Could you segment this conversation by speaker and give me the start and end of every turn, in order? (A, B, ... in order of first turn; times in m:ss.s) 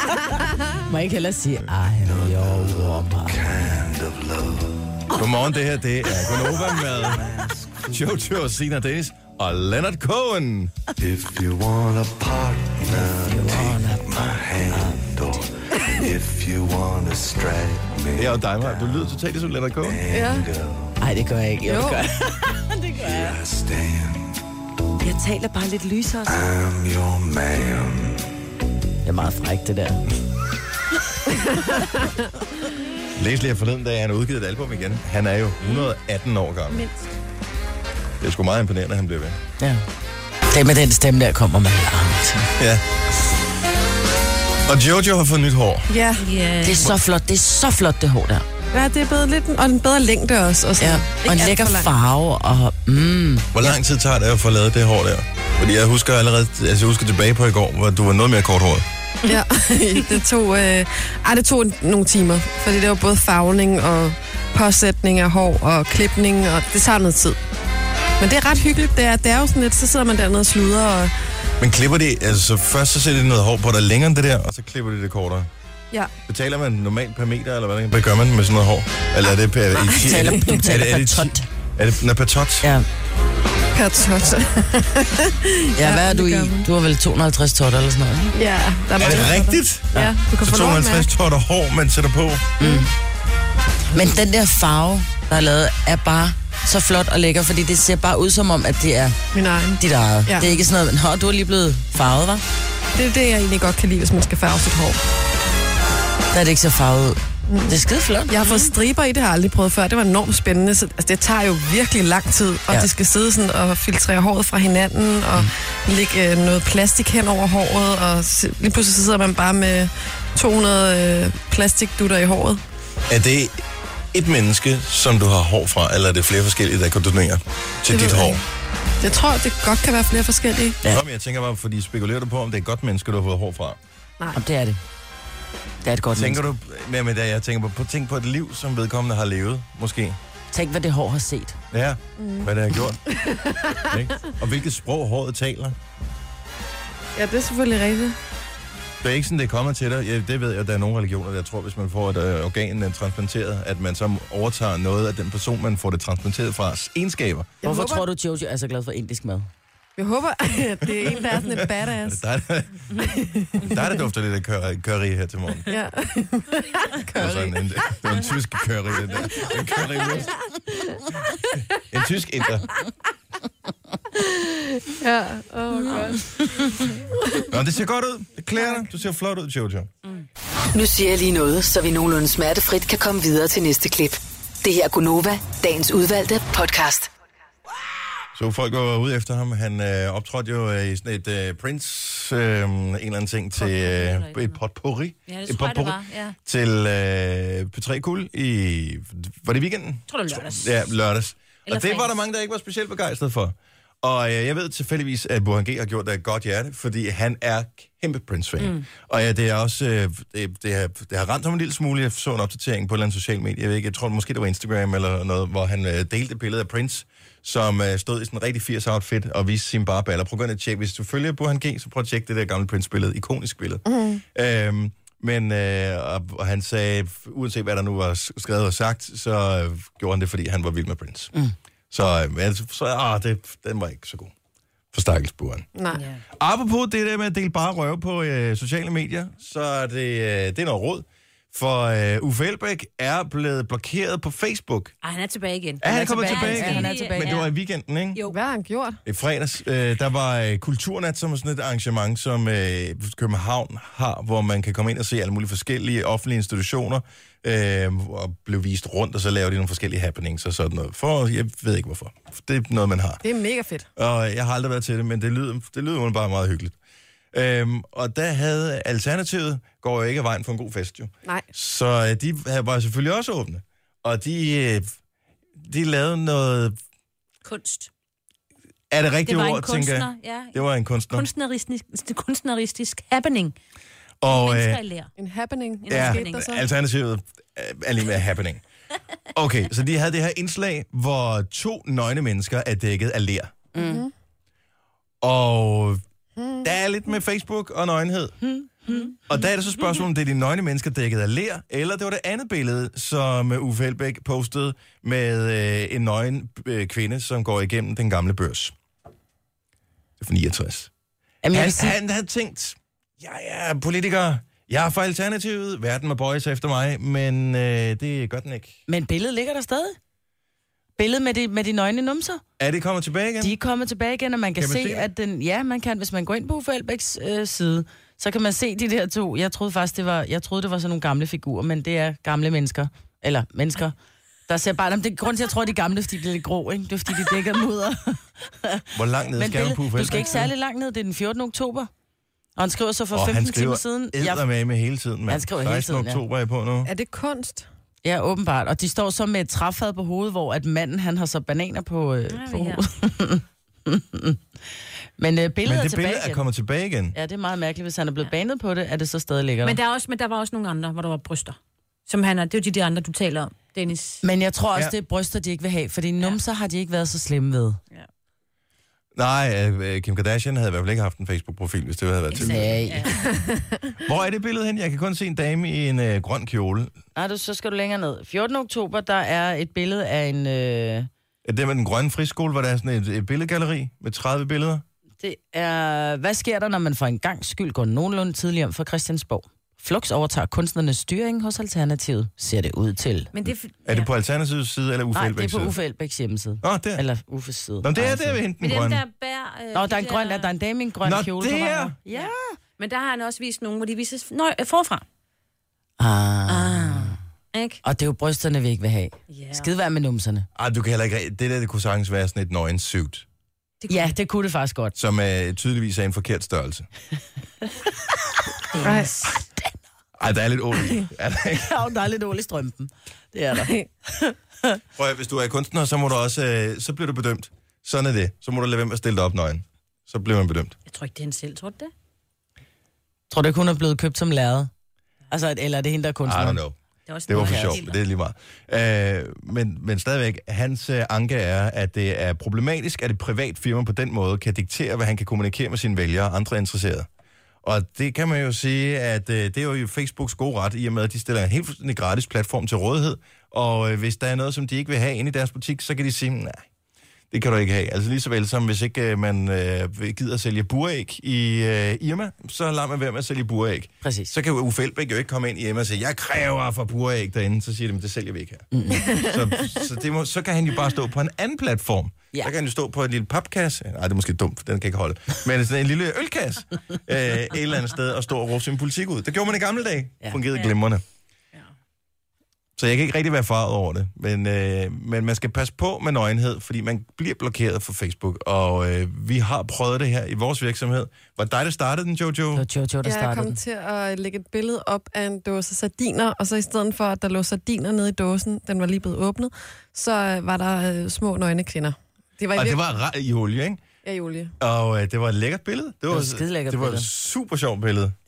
0:00.8-0:03.4 A
0:02.0-0:05.3 B
0:05.1-0:07.2 C
0:06.2-0:08.2 B
0:07.9-0:10.8 C
0:11.0-0:19.2 B
0:12.9-0:15.0 A
0:18.2-0:20.0 C
0:19.8-0:21.0 B
0:20.1-0:20.5 D
0:21.0-0:23.4 A
0:21.6-0:22.0 D
0:23.0-0:24.4 B
0:25.0-0:26.4 A
0:26.2-0:28.4 B
0:29.0-0:30.0 A
0:33.1-0:36.8 C
0:38.2-0:39.4 C
0:40.5-0:42.5 A
0:42.6-0:42.8 C
0:44.6-0:45.9 C
0:45.9-0:46.2 D
0:46.2-0:46.9 E
0:46.6-0:48.4 A
0:48.7-0:51.9 D
0:50.8-0:53.8 A
0:53.5-0:58.8 C
0:59.2-1:07.4 D
1:08.2-1:11.1 D
1:11.6-1:15.5 C
1:16.3-1:22.7 C
1:19.9-1:21.5 A
1:20.0-1:20.3 D
1:23.7-1:26.7 D
1:25.8-1:28.3 A
1:28.4-1:31.1 D
1:29.0-1:32.5 C
1:32.6-1:32.9 A
1:33.9-1:39.2 A
1:39.3-1:40.5 D
1:39.8-1:42.4 A
1:43.0-1:45.0 D
1:46.3-1:48.3 A
1:47.5-2:02.6 D
1:48.4-1:48.7 E
2:03.1-2:03.6 C
2:04.1-2:08.4 C
2:07.9-2:08.4 D
2:09.0-2:10.8 D
2:10.9-2:13.8 C
2:14.3-2:14.8 A
2:15.8-2:16.4 A
2:16.1-2:20.2 C
2:20.5-2:21.6 A
2:21.7-2:23.0 C
2:22.2-2:24.0 D
2:23.8-2:25.8 C
2:27.2-2:28.2 D
2:29.0-2:37.5 C
2:37.6-2:38.0 D
2:37.6-2:39.5 A
2:40.0-2:42.2 D
2:41.0-2:45.7 C
2:42.9-2:44.0 D
2:45.7-2:47.5 D
2:47.1-2:50.4 C
2:50.2-2:51.2 D
2:51.8-2:52.8 C
2:54.1-2:57.5 D
2:57.5-2:59.9 C
3:00.7-3:07.1 F
3:08.3-3:51.3 C
3:13.6-3:14.6 E
3:15.3-3:16.4 E
3:20.1-3:20.8 E
3:21.7-3:22.2 E
3:28.6-3:28.8 E
3:43.8-3:44.2 D
3:51.9-3:54.3 C
3:54.9-3:55.7 C
3:55.8-3:56.0 D
3:55.9-3:56.2 E
3:56.4-4:04.9 C
4:05.0-4:07.5 E
4:05.8-4:08.2 C
4:05.9-4:07.4 A
4:08.2-4:09.0 D
4:09.0-4:23.2 C
4:23.2-4:23.9 D
4:24.0-4:26.7 C
4:27.3-4:34.9 C
4:35.6-4:36.8 C
4:37.4-4:37.9 E
4:38.9-4:41.3 C
4:39.2-4:43.5 E
4:44.2-4:44.8 C
4:44.2-4:45.1 E
4:45.2-4:46.6 D
4:45.8-4:46.4 E
4:45.9-4:48.6 C
4:49.3-4:53.6 C
4:53.7-4:54.0 A
4:53.8-4:54.1 D
4:55.2-4:56.0 C
4:56.4-4:56.7 D
4:56.6-4:58.4 C
4:58.4-4:59.2 A
4:59.3-5:08.7 C
5:10.2-5:10.9 C
5:11.4-5:11.9 A
5:11.5-5:18.8 C
5:18.9-5:20.0 A
5:21.0-5:22.4 A
5:22.6-5:23.6 C
5:23.4-5:34.0 A
5:24.6-5:25.1 C
5:34.5-5:38.8 A
5:38.9-5:40.5 C
5:39.4-5:41.9 A
5:42.6-5:44.4 A
5:43.1-5:46.9 C
5:45.3-5:46.2 A
5:46.8-5:47.7 D
5:48.0-5:54.4 A
5:52.3-5:52.8 E
5:55.2-5:56.4 A
5:55.6-5:57.2 C
5:57.1-5:59.8 A
5:59.6-6:01.6 E
6:02.1-6:04.2 E
6:04.2-6:07.8 A
6:09.1-6:12.8 C
6:12.3-6:13.1 E
6:12.3-6:13.1 A
6:13.1-6:14.0 D
6:14.0-6:16.9 C
6:17.2-6:21.1 A
6:21.4-6:24.8 C
6:25.2-6:33.3 A
6:33.3-6:34.1 E
6:33.8-6:35.7 C
6:35.1-6:38.4 A
6:36.6-6:37.0 C
6:37.8-6:39.0 C
6:38.6-6:40.5 E
6:39.7-6:42.6 A
6:41.0-6:41.9 C
6:42.1-6:45.0 E
6:46.0-6:47.2 A
6:46.5-6:47.8 E
6:47.8-6:50.5 A
6:49.3-6:49.7 E
6:50.5-6:53.2 C
6:53.8-6:54.2 E
6:53.9-6:54.9 A
6:55.0-6:56.9 C
6:58.7-6:59.3 E
6:58.8-6:59.1 D
7:00.2-7:01.8 C
7:01.6-7:03.7 A
7:03.6-7:03.9 D
7:05.0-7:10.7 C
7:10.9-7:11.9 E
7:13.3-7:14.7 A
7:15.3-7:16.6 A
7:16.2-7:27.1 C
7:17.1-7:18.0 E
7:17.3-7:17.8 A
7:27.6-7:36.7 C
7:37.3-8:01.0 C
7:44.0-7:44.3 A
7:48.7-7:49.1 A
7:48.9-7:49.4 D
8:02.8-8:12.6 C
8:12.5-8:13.6 A
8:13.0-8:22.8 D
8:22.5-8:23.8 C
8:24.0-8:24.5 D
8:24.6-8:28.2 C
8:26.1-8:27.1 A